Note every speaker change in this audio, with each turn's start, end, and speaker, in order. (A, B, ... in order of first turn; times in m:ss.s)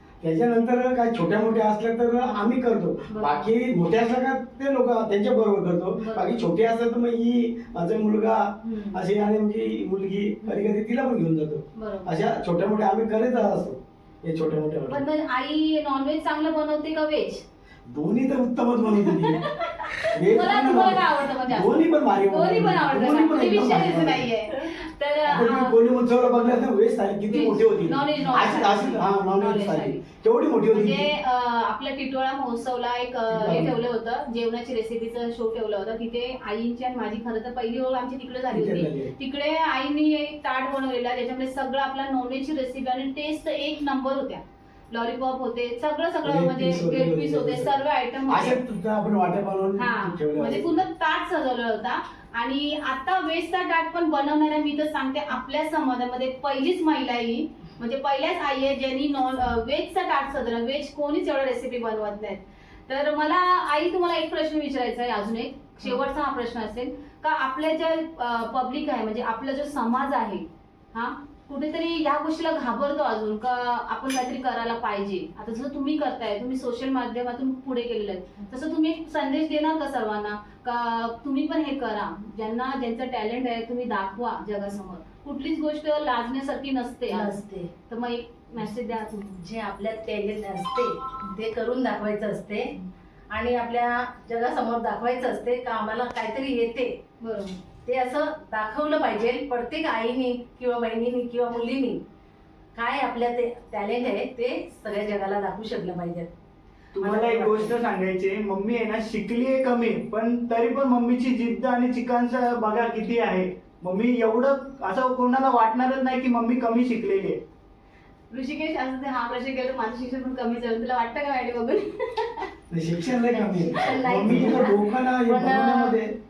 0:00.2-0:15.0 A
0:03.1-0:03.5 B
0:06.0-0:06.4 B
0:08.6-0:09.0 B
0:10.4-0:10.7 B
0:11.8-0:12.2 B
0:14.9-0:17.4 B
0:17.9-0:19.4 A
0:18.9-0:25.7 B
0:20.1-0:24.3 A
0:25.2-0:31.1 A
0:27.3-0:30.0 B
0:30.7-0:48.6 B
0:33.3-0:33.8 A
0:38.5-0:39.1 A
0:46.2-0:50.8 A
0:49.8-1:29.4 B
1:27.1-1:27.7 C
1:29.4-1:32.7 C
1:33.3-1:36.9 C
1:37.2-1:37.6 B
1:37.8-1:42.0 C
1:42.7-1:46.3 C
1:47.0-1:57.4 D
1:47.0-1:47.7 C
1:58.3-2:02.5 B
2:02.7-2:06.1 A
2:03.3-2:06.0 C